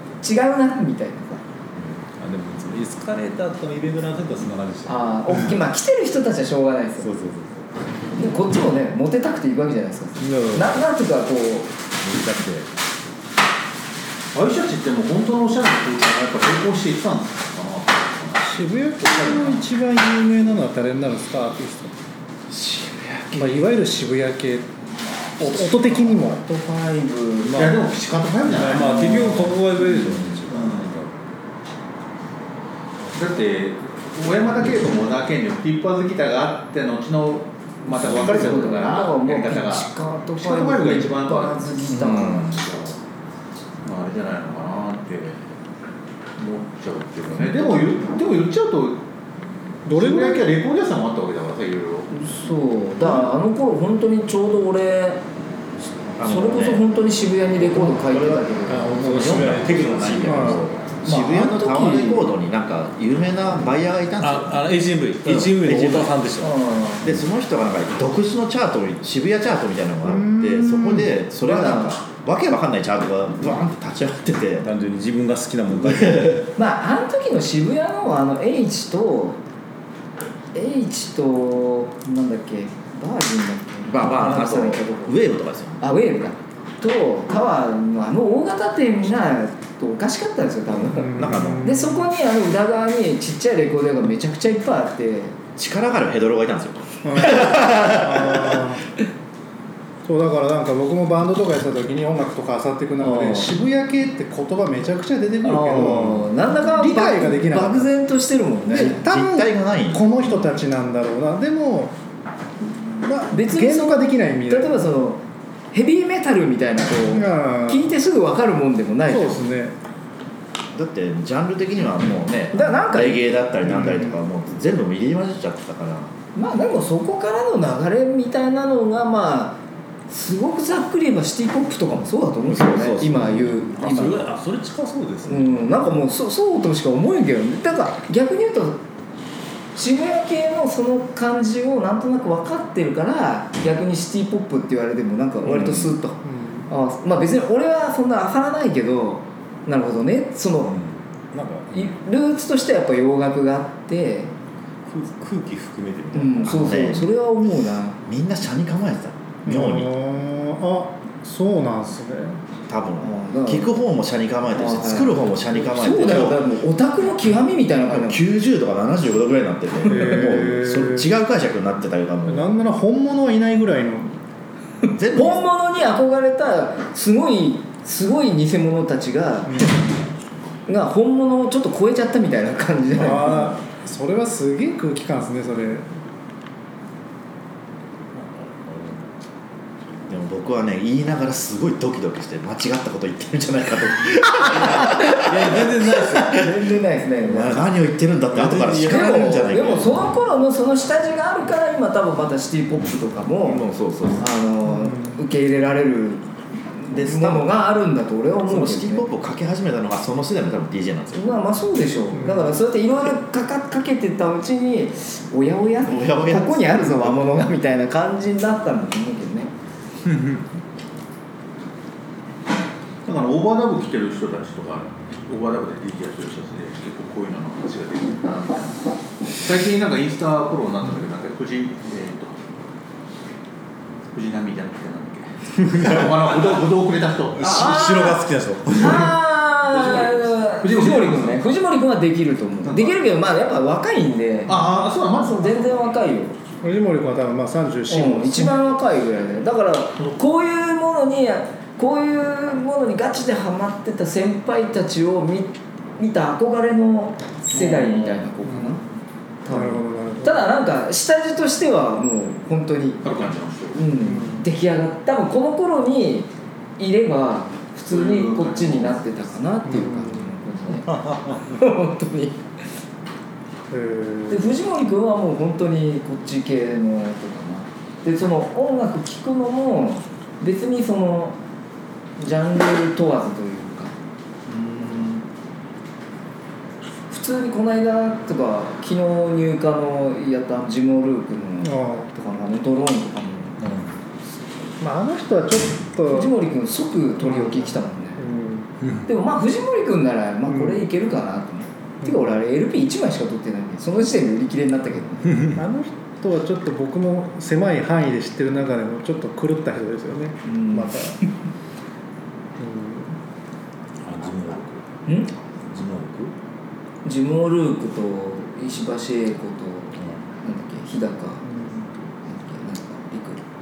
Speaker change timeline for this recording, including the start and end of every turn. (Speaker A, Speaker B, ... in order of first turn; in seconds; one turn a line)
Speaker A: 0.2-1.4
Speaker B: 1.8-5.3
Speaker A: 4.8-7.1
Speaker B: 7.0-7.7
Speaker A: 8.2-11.7
Speaker B: 10.2-10.8
Speaker B: 12.0-12.7
Speaker C: 14.3-19.6
Speaker D: 18.4-21.9
Speaker B: 22.6-23.2
Speaker D: 23.3-24.7
Speaker D: 25.4-26.4
Speaker A: 25.4-27.6
Speaker B: 27.4-27.8
Speaker C: 27.5-29.6
Speaker B: 28.4-31.1
Speaker A: 29.9-30.3
Speaker C: 30.5-30.9
Speaker C: 33.1-43.0
Speaker A: 37.9-42.6
Speaker C: 43.8-45.4
Speaker C: 46.4-49.0
Speaker D: 49.9-50.5
Speaker C: 49.9-52.1
Speaker A: 52.1-55.2
Speaker E: 56.1-56.8
Speaker A: 56.2-59.0
Speaker B: 57.7-61.0
Speaker E: 59.0-64.6
Speaker D: 60.2-60.6
Speaker A: 61.0-62.3
Speaker B: 64.2-66.5
Speaker E: 65.2-66.1
Speaker A: 66.4-67.0
Speaker E: 67.0-74.7
Speaker D: 70.0-71.1
Speaker A: 71.4-72.0
Speaker B: 74.6-76.5
Speaker A: 76.5-79.4
Speaker A: 80.5-85.2
Speaker E: 83.9-85.8
Speaker A: 85.8-95.4
Speaker E: 90.9-91.7
Speaker D: 90.9-92.0
Speaker E: 95.6-98.7
Speaker D: 97.0-98.8
Speaker D: 100.0-107.9
Speaker A: 103.0-103.5
Speaker A: 105.4-109.0
Speaker D: 108.7-111.9
Speaker E: 108.7-110.3
Speaker D: 113.0-114.8
Speaker A: 113.3-115.2
Speaker A: 115.7-119.4
Speaker D: 117.1-117.9
Speaker D: 119.0-119.7
Speaker E: 120.7-126.1
Speaker A: 122.5-123.2
Speaker D: 123.7-124.0
Speaker A: 126.3-134.3
Speaker B: 132.5-136.0
Speaker A: 135.2-138.8
Speaker A: 139.8-150.7
Speaker D: 146.2-146.7
Speaker B: 150.6-151.9
Speaker A: 151.7-154.3
Speaker B: 154.9-156.5
Speaker A: 156.1-158.0
Speaker E: 156.5-157.1
Speaker E: 158.1-159.9
Speaker D: 159.4-162.4
Speaker E: 162.7-166.4
Speaker A: 163.0-163.7
Speaker A: 164.5-168.2
Speaker E: 167.9-172.5
Speaker D: 169.9-171.1
Speaker D: 172.2-174.1
Speaker E: 174.9-175.5
Speaker A: 175.1-179.8
Speaker A: 180.7-183.6
Speaker D: 182.9-185.9
Speaker B: 188.2-189.1
Speaker E: 190.1-196.4
Speaker B: 194.9-196.4
Speaker A: 196.2-197.7
Speaker E: 197.2-200.0
Speaker B: 198.3-199.5
Speaker A: 198.8-203.6
Speaker E: 203.4-204.2
Speaker A: 204.2-206.2
Speaker D: 204.7-205.2
Speaker A: 206.8-209.1
Speaker E: 206.9-207.5
Speaker E: 208.4-211.3
Speaker A: 211.1-219.5
Speaker D: 212.1-212.5
Speaker E: 215.8-217.4
Speaker C: 223.0-228.9
Speaker C: 229.4-232.4
Speaker C: 234.1-238.1
Speaker B: 235.7-236.0
Speaker B: 237.4-239.1
Speaker A: 237.5-238.2
Speaker A: 238.8-246.3
Speaker C: 239.7-241.6
Speaker C: 242.6-243.0
Speaker C: 244.5-245.9
Speaker D: 246.6-248.6
Speaker A: 247.9-258.8
Speaker C: 257.5-258.2
Speaker D: 258.4-258.7
Speaker A: 259.4-263.0
Speaker D: 259.5-260.4
Speaker C: 263.0-263.8
Speaker A: 263.7-272.4
Speaker D: 264.0-264.4
Speaker C: 267.9-269.0
Speaker D: 269.6-270.4
Speaker B: 270.9-271.4
Speaker D: 273.7-274.5
Speaker A: 274.3-281.4
Speaker A: 282.2-283.9
Speaker A: 284.5-285.2
Speaker A: 287.1-293.8
Speaker D: 291.6-292.1
Speaker D: 294.8-296.3
Speaker A: 296.1-298.2
Speaker D: 297.3-297.6
Speaker D: 298.2-298.7
Speaker A: 299.1-305.5
Speaker D: 300.5-300.8
Speaker D: 302.0-302.3
Speaker D: 305.5-311.2
Speaker A: 310.4-311.2
Speaker D: 312.6-313.1
Speaker B: 314.0-314.8
Speaker A: 315.0-315.3
Speaker B: 315.7-316.3
Speaker A: 317.0-321.4
Speaker D: 321.4-321.9
Speaker A: 322.2-323.4